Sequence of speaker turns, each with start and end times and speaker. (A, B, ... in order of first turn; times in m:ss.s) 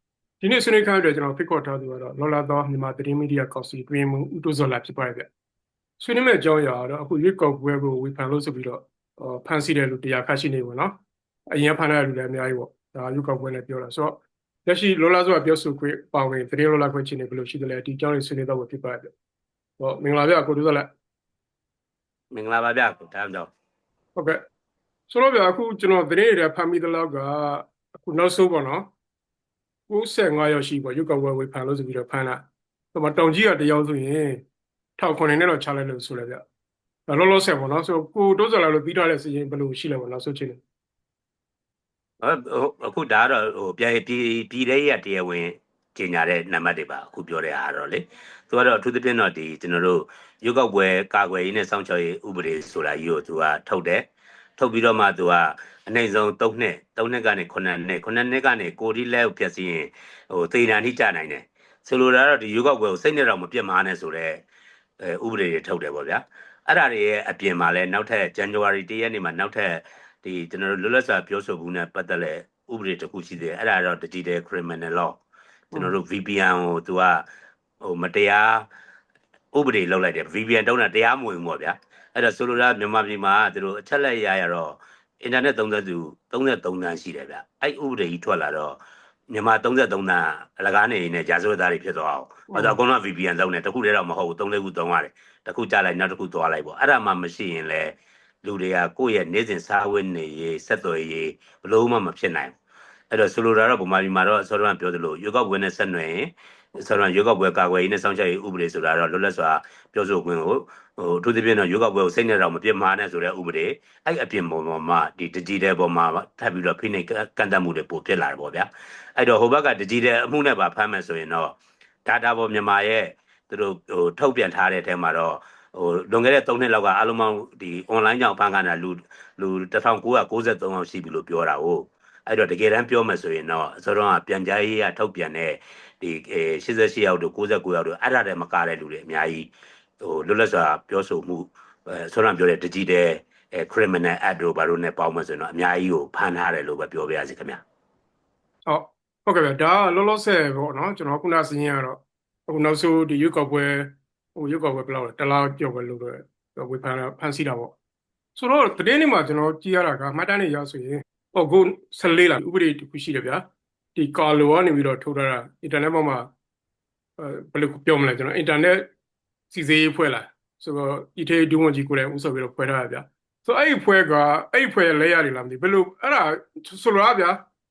0:00.4-0:05.3 A
0:06.0-0:11.0 A
0:11.5-0:19.1 A
0:19.8-0:20.9 A
0:22.3-0:23.5 B
0:24.2-0:24.4 A
0:25.1-0:28.9 A
0:29.9-0:34.4 A
0:35.0-0:36.4 A
0:37.1-0:40.6 A
0:42.2-0:54.1 B
0:54.6-1:04.4 B
1:05.0-1:15.2 B
1:15.7-1:17.2 B
1:17.8-1:18.7 B
1:19.5-1:28.8 B
1:29.3-1:42.5 B
1:32.5-1:32.8 A
1:43.1-2:27.6 B
2:28.7-2:37.8 A
2:38.4-2:46.3 A
2:47.2-2:48.9 A
2:49.5-2:57.5 A